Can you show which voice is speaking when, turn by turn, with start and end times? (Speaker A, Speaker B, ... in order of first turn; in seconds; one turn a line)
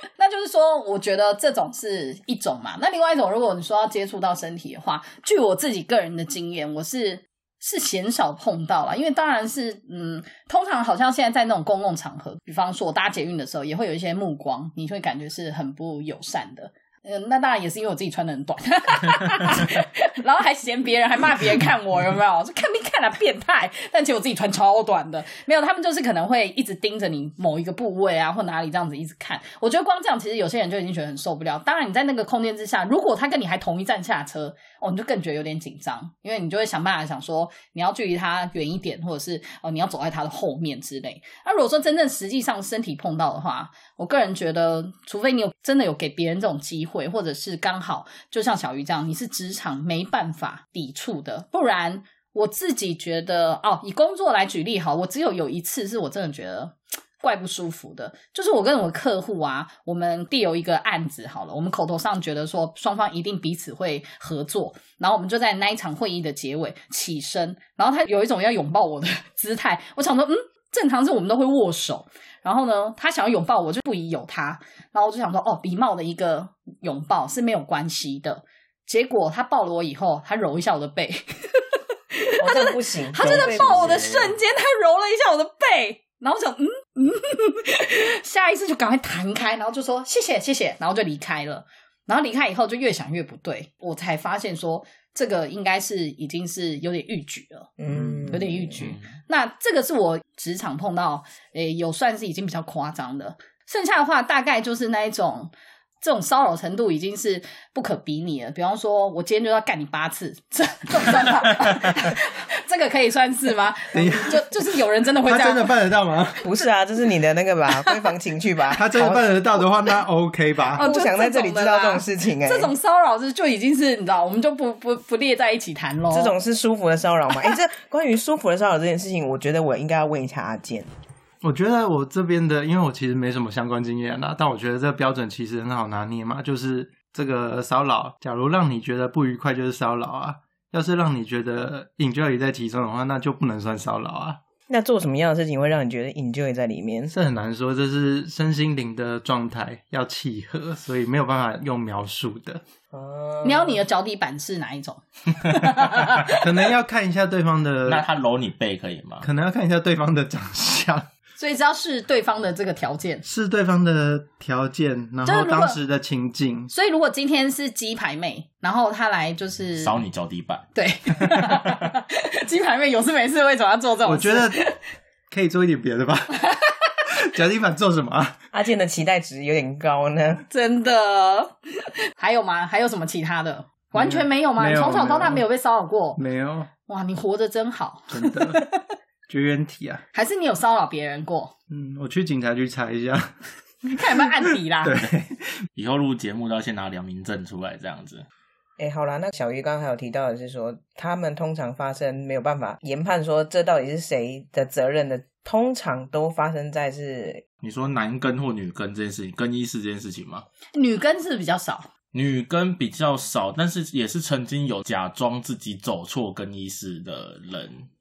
Speaker A: 0.2-97.7
Speaker B: 82.4-84.2
Speaker C: 83.2-84.1
Speaker B: 97.8-98.7
Speaker A: 98.2-115.8
Speaker C: 98.8-99.1
Speaker D: 113.9-114.5
Speaker D: 115.2-116.4
Speaker B: 116.4-119.4
Speaker D: 118.7-120.8
Speaker A: 120.7-126.3
Speaker B: 120.8-122.7
Speaker B: 126.1-130.9
Speaker D: 131.4-144.4
Speaker B: 144.7-147.1
Speaker D: 147.1-152.6
Speaker B: 152.9-153.8
Speaker A: 153.4-156.3
Speaker D: 156.3-158.0
Speaker C: 157.8-159.3
Speaker D: 159.2-161.1
Speaker A: 161.4-163.2
Speaker D: 163.2-166.7
Speaker A: 165.2-165.8
Speaker A: 166.7-170.0
Speaker C: 169.8-170.7
Speaker A: 170.7-174.7
Speaker C: 171.2-171.6
Speaker D: 174.0-174.7
Speaker D: 175.3-176.5
Speaker D: 177.1-178.4
Speaker B: 178.5-180.4
Speaker A: 180.5-181.6
Speaker A: 182.1-186.2
Speaker D: 183.9-185.4
Speaker D: 186.2-186.7
Speaker A: 186.9-188.7
Speaker D: 188.1-188.6
Speaker D: 189.3-190.0
Speaker A: 190.1-191.5
Speaker D: 191.7-195.5
Speaker A: 193.9-195.0
Speaker C: 195.8-198.2
Speaker B: 198.8-207.4
Speaker C: 207.6-210.4
Speaker A: 210.7-211.9
Speaker C: 212.1-217.9